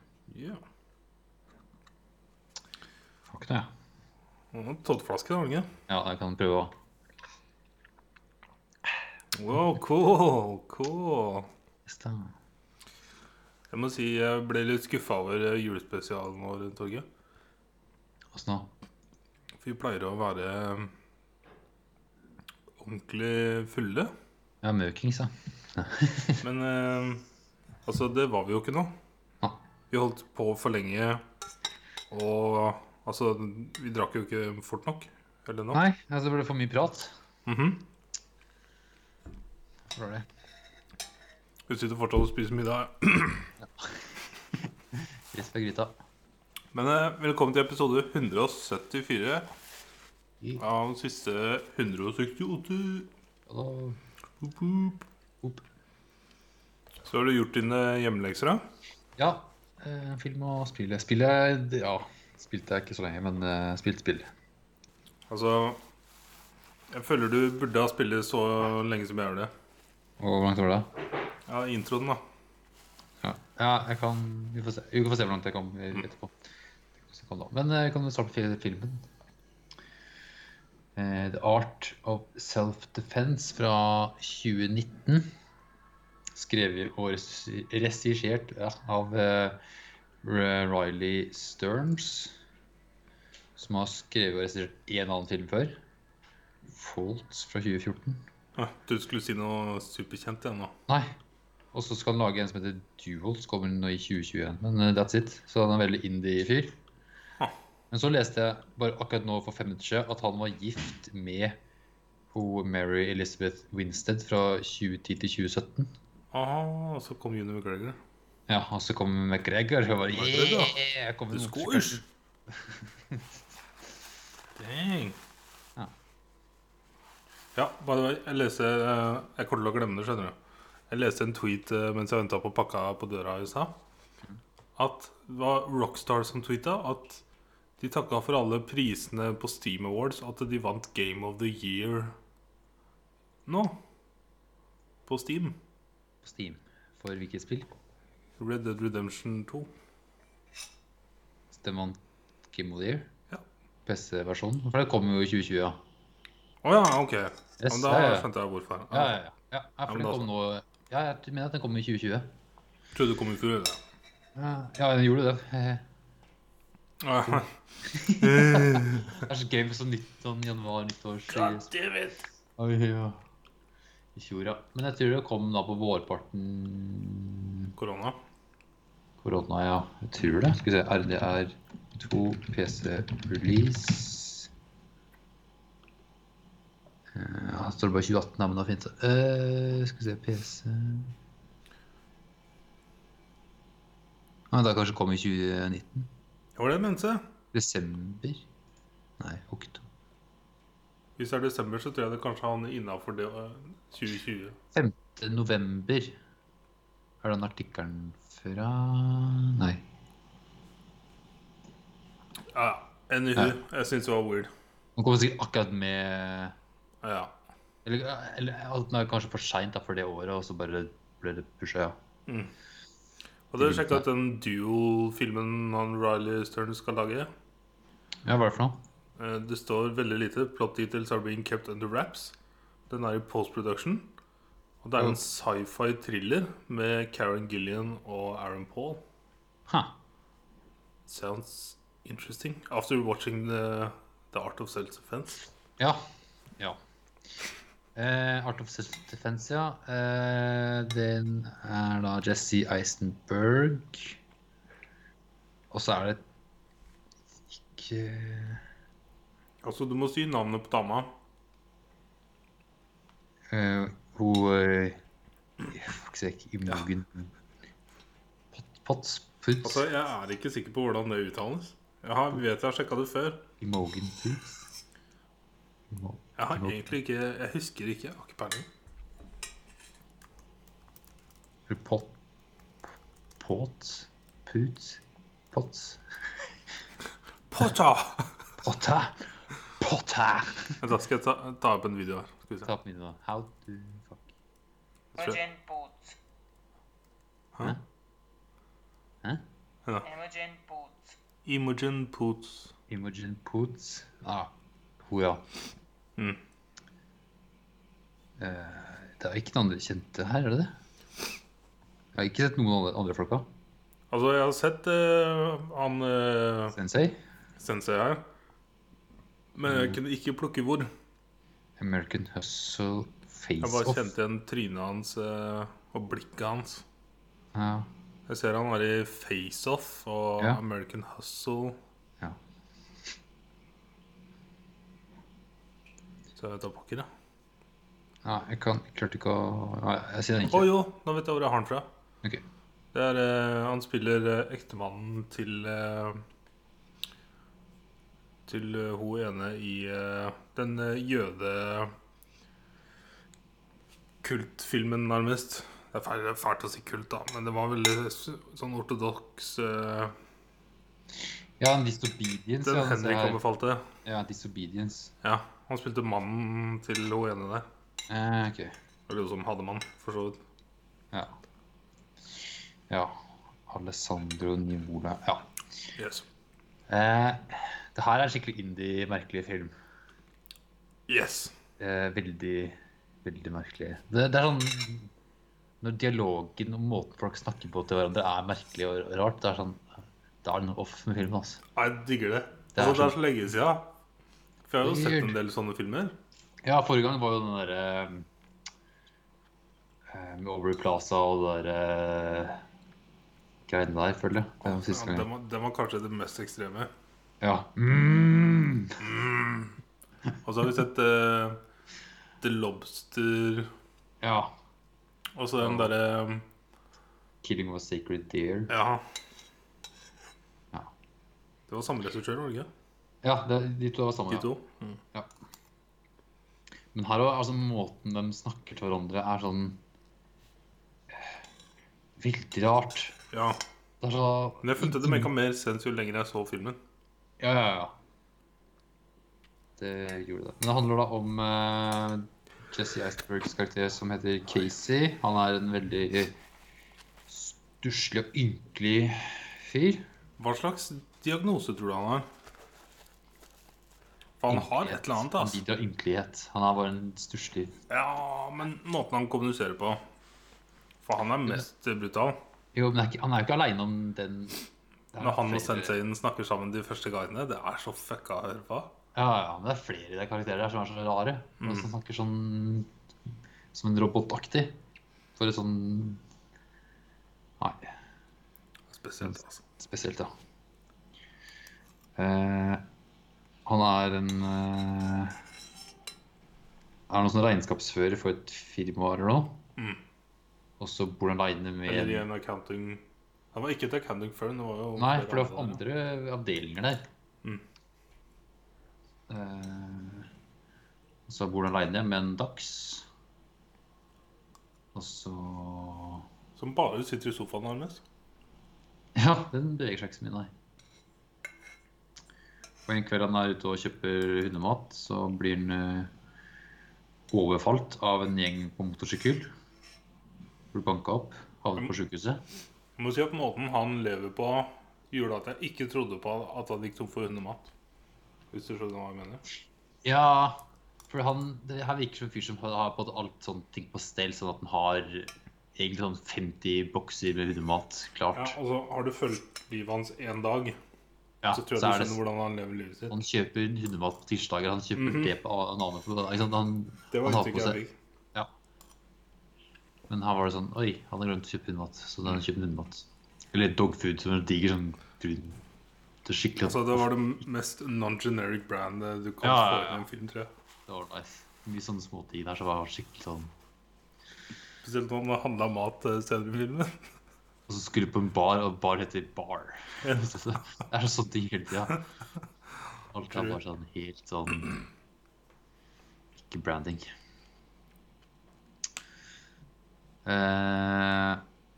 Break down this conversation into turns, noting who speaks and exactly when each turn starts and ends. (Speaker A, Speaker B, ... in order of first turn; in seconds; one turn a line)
Speaker A: 0.3-0.6
Speaker B: 3.3-3.7
Speaker A: 4.5-5.7
Speaker B: 5.9-6.7
Speaker A: 9.3-11.5
Speaker B: 11.8-12.3
Speaker A: 13.7-17.1
Speaker B: 18.3-18.7
Speaker A: 19.6-20.9
Speaker A: 22.8-24.1
Speaker B: 24.6-26.4
Speaker A: 26.4-27.2
Speaker A: 27.8-28.9
Speaker A: 29.9-31.2
Speaker A: 32.1-35.8
Speaker B: 35.7-37.1
Speaker A: 37.5-37.8
Speaker B: 39.9-40.2
Speaker A: 41.7-43.5
Speaker B: 43.6-45.9
Speaker A: 46.7-49.5
Speaker A: 50.6-53.1
Speaker B: 53.5-54.0
Speaker A: 54.4-55.0
Speaker A: 57.0-58.6
Speaker B: 59.2-64.3
Speaker A: 65.3-65.8
Speaker A: 66.9-69.5
Speaker B: 70.2-70.9
Speaker A: 71.5-72.2
Speaker B: 73.2-76.4
Speaker B: 77.1-79.0
Speaker B: 81.0-85.3
Speaker B: 86.3-89.6
Speaker B: 90.2-92.3
Speaker B: 93.6-95.8
Speaker B: 96.7-98.2
Speaker A: 98.5-100.7
Speaker B: 101.7-106.8
Speaker B: 107.9-111.6
Speaker B: 112.3-115.9
Speaker A: 116.3-118.0
Speaker B: 118.5-123.3
Speaker A: 120.1-120.8
Speaker A: 121.3-122.0
Speaker A: 124.5-125.2
Speaker A: 127.5-130.3
Speaker A: 130.9-133.7
Speaker A: 134.8-137.2
Speaker A: 137.8-142.1
Speaker A: 143.5-143.8
Speaker A: 145.1-145.6
Speaker B: 146.2-147.8
Speaker A: 148.4-149.7
Speaker B: 151.5-153.1
Speaker B: 153.8-155.8
Speaker A: 156.6-159.2
Speaker B: 157.6-158.3
Speaker B: 158.9-162.3
Speaker A: 159.9-160.2
Speaker A: 162.9-163.8
Speaker B: 164.3-165.8
Speaker A: 167.0-167.5
Speaker B: 167.8-171.7
Speaker A: 168.2-169.2
Speaker A: 171.3-172.2
Speaker B: 172.6-173.2
Speaker B: 174.1-177.7
Speaker A: 177.8-178.2
Speaker B: 179.2-184.5
Speaker B: 187.1-191.1
Speaker B: 194.5-196.1
Speaker A: 196.6-197.3
Speaker B: 197.5-198.4
Speaker B: 199.2-199.8
Speaker A: 201.2-204.6
Speaker B: 204.7-206.2
Speaker B: 207.2-209.8
Speaker A: 212.5-214.5
Speaker B: 214.9-216.5
Speaker A: 217.0-217.3
Speaker B: 217.8-221.9
Speaker A: 222.3-222.5
Speaker A: 223.5-227.3
Speaker B: 223.6-224.0
Speaker B: 228.2-228.8
Speaker A: 229.2-232.3
Speaker A: 232.9-234.1
Speaker A: 234.8-239.0
Speaker B: 239.7-239.9
Speaker A: 241.1-245.5
Speaker B: 245.8-246.8
Speaker B: 247.3-254.2
Speaker B: 255.7-256.2
Speaker B: 257.5-258.6
Speaker A: 259.6-261.1
Speaker B: 263.5-265.0
Speaker B: 265.6-267.3
Speaker B: 268.5-269.8
Speaker A: 269.6-273.4
Speaker B: 273.6-274.6
Speaker B: 275.9-276.9
Speaker A: 276.4-278.7
Speaker B: 281.7-282.1
Speaker B: 283.4-286.0
Speaker A: 287.5-288.3
Speaker B: 288.6-289.3
Speaker B: 289.8-290.8
Speaker A: 290.8-292.7
Speaker B: 292.6-294.3
Speaker A: 295.1-295.4
Speaker C: 295.2-296.2
Speaker C: 300.0-301.1
Speaker A: 301.4-302.7
Speaker B: 302.9-304.5
Speaker B: 305.1-305.4
Speaker B: 308.4-310.7
Speaker B: 312.1-313.5
Speaker A: 314.1-316.8
Speaker B: 316.7-317.2
Speaker A: 317.6-318.2
Speaker A: 319.5-320.9
Speaker B: 319.7-320.0
Speaker B: 321.8-324.1
Speaker A: 323.6-326.8
Speaker B: 327.5-327.9
Speaker A: 328.3-331.8
Speaker A: 336.4-337.1
Speaker B: 338.2-340.7
Speaker A: 340.5-341.9
Speaker A: 342.9-346.2
Speaker A: 348.5-351.9
Speaker A: 354.2-360.1
Speaker B: 361.6-363.4
Speaker A: 362.6-363.9
Speaker B: 364.0-365.1
Speaker A: 365.2-367.6
Speaker B: 368.1-368.7
Speaker A: 369.1-370.4
Speaker B: 372.4-375.5
Speaker A: 376.0-376.2
Speaker B: 376.9-379.7
Speaker A: 381.1-381.5
Speaker B: 381.8-385.1
Speaker B: 385.8-391.6
Speaker A: 391.8-393.9
Speaker B: 392.7-393.2
Speaker A: 394.7-396.1
Speaker B: 394.8-395.4
Speaker B: 396.6-398.3
Speaker B: 400.1-402.6
Speaker B: 403.7-405.3
Speaker A: 404.6-406.9
Speaker B: 407.4-409.0
Speaker A: 409.0-409.8
Speaker A: 410.4-411.6
Speaker A: 412.4-413.7
Speaker B: 414.2-414.5
Speaker A: 415.4-416.4
Speaker B: 415.6-415.9
Speaker B: 417.4-418.7
Speaker A: 418.7-419.0
Speaker A: 421.7-422.7
Speaker B: 423.2-424.5
Speaker A: 424.3-425.0
Speaker B: 426.9-429.8
Speaker B: 431.1-431.4
Speaker B: 432.2-433.2
Speaker A: 433.3-433.6
Speaker B: 434.0-435.3
Speaker A: 434.6-436.8
Speaker B: 437.4-437.9
Speaker B: 439.8-446.4
Speaker B: 447.3-450.0
Speaker A: 450.4-452.3
Speaker A: 454.4-455.6
Speaker B: 454.5-457.7
Speaker A: 457.9-460.0
Speaker A: 461.0-462.4
Speaker B: 462.7-464.6
Speaker B: 465.1-465.9
Speaker A: 465.2-468.9
Speaker B: 469.1-472.9
Speaker A: 471.6-471.9
Speaker B: 473.7-474.8
Speaker B: 475.4-476.2
Speaker B: 477.6-477.9
Speaker A: 478.9-479.6
Speaker B: 479.2-480.3
Speaker B: 482.2-482.8
Speaker B: 483.6-485.4
Speaker B: 487.1-489.6
Speaker B: 490.8-492.2
Speaker A: 491.8-493.0
Speaker A: 493.5-495.8
Speaker B: 494.9-497.0
Speaker B: 499.3-500.3
Speaker B: 501.3-503.1
Speaker B: 504.9-506.2
Speaker A: 506.6-508.0
Speaker B: 509.1-510.5
Speaker B: 512.9-516.1
Speaker B: 517.3-519.5
Speaker B: 520.7-522.4
Speaker A: 523.0-527.7
Speaker A: 528.5-529.4
Speaker B: 530.0-538.6
Speaker A: 538.3-540.7
Speaker B: 541.4-542.2
Speaker A: 541.5-543.2
Speaker B: 543.1-547.8
Speaker A: 544.9-545.3
Speaker A: 547.1-547.9
Speaker B: 550.1-555.6
Speaker B: 556.2-557.0
Speaker A: 556.6-560.5
Speaker B: 559.4-560.0
Speaker B: 560.9-563.5
Speaker A: 564.8-566.9
Speaker B: 567.7-572.0
Speaker B: 573.1-574.8
Speaker B: 576.4-577.1
Speaker B: 580.2-581.4